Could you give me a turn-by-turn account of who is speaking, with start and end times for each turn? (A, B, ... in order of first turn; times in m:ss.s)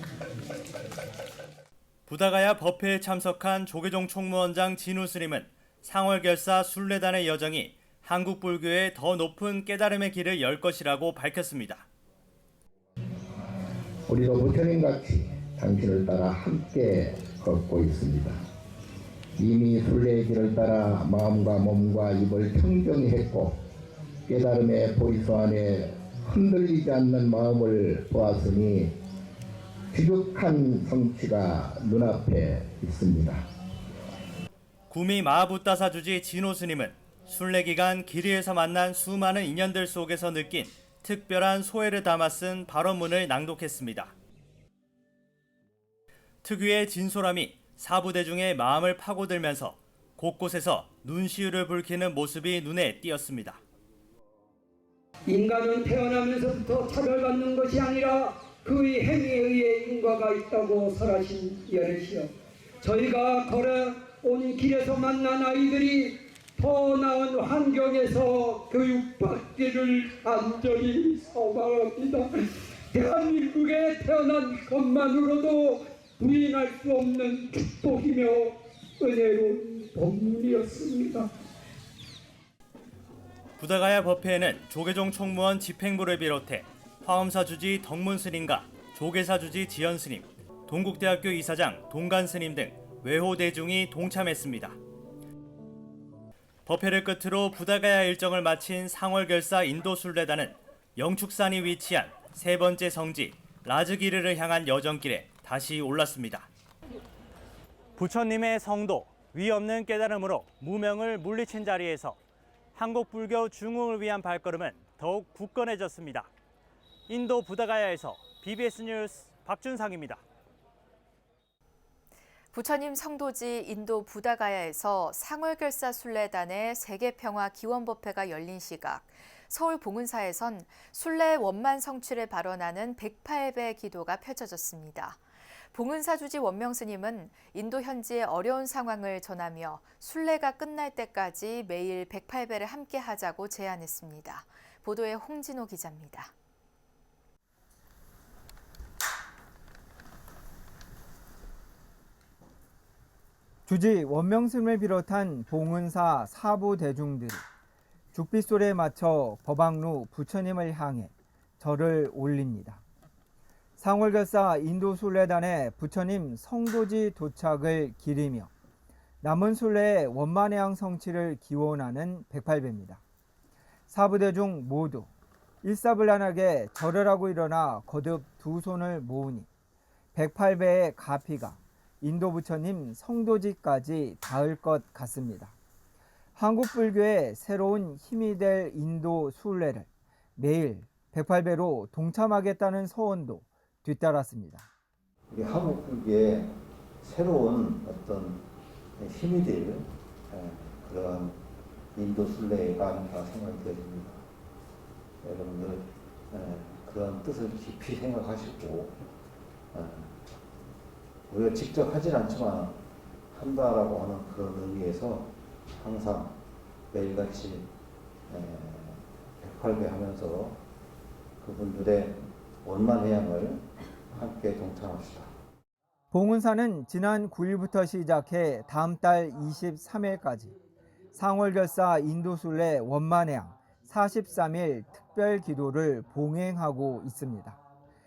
0:02.1-0:11.8 A
0:14.1-0:18.4 B
0:19.4-0:23.6 B
0:24.3-0:29.0 B
0:29.9-0:33.5 B
0:34.9-0:44.1 A
0:46.4-0:53.6 A
0:55.3-1:21.3 C
1:23.6-1:34.8 A
1:36.6-1:46.5 A
1:48.0-1:52.2 A
1:52.7-1:56.3 A
1:57.1-2:00.2 A
2:02.5-2:26.3 D
2:33.7-2:37.4 E
2:38.1-2:42.8 E
2:43.8-2:48.5 E
2:49.2-2:53.0 E
2:53.9-2:55.1 E
2:55.6-2:59.5 E
3:00.1-3:05.5 E
3:06.4-3:14.7 E
3:15.3-3:18.4 F
3:19.0-3:21.4 F
3:21.9-3:24.2 F
3:25.2-3:29.0 F
3:29.7-3:30.2 F
3:31.3-3:36.4 F
3:36.9-3:37.7 F
3:38.3-3:40.6 F
3:41.4-3:45.3 F
3:46.1-3:50.6 E
3:51.1-3:57.6 E